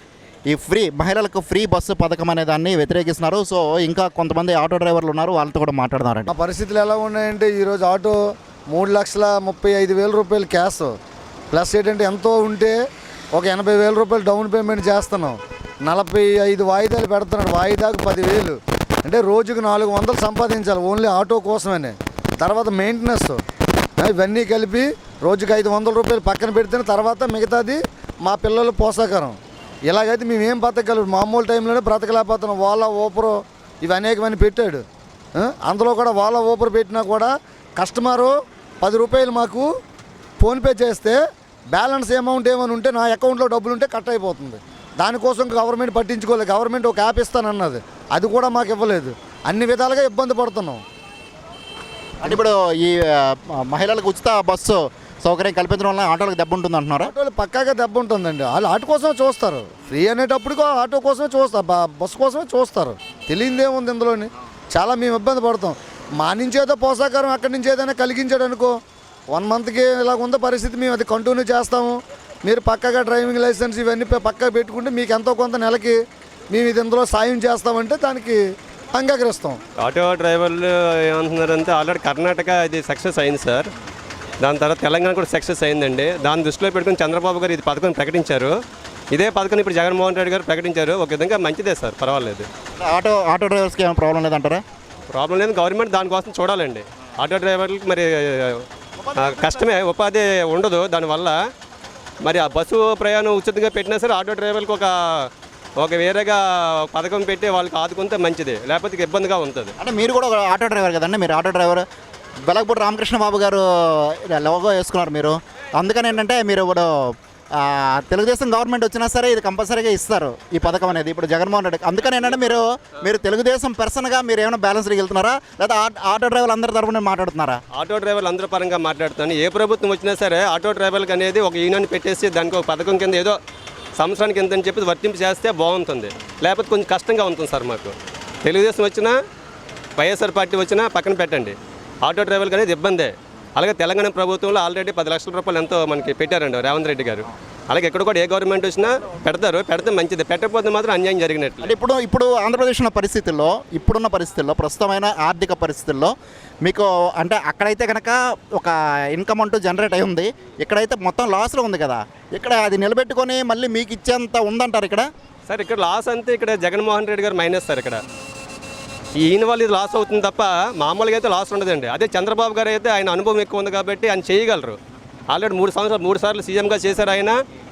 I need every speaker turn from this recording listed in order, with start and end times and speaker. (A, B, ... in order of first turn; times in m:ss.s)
0:00.5-0:06.3 A
0:06.3-0:08.2 B
0:08.7-0:11.0 B
0:11.5-0:12.7 B
0:13.3-0:23.4 B
0:24.0-0:34.8 B
0:35.4-0:39.7 B
0:40.4-0:41.2 B
0:41.7-0:50.8 B
0:52.2-0:57.1 A
0:57.0-1:08.7 B
1:09.3-1:16.0 B
1:16.5-1:19.6 B
1:19.8-1:23.7 C
1:24.4-1:28.5 C
1:29.1-1:32.5 C
1:32.8-1:34.6 A
1:35.1-1:38.6 C
1:39.2-1:41.4 C
1:42.2-1:49.7 C
1:49.8-1:51.8 A
1:52.5-2:07.6 A
2:07.7-2:13.4 C
2:14.0-2:19.2 C
2:20.0-2:31.7 C
2:31.6-2:45.1 A
2:45.5-2:48.0 C
2:49.2-2:57.4 C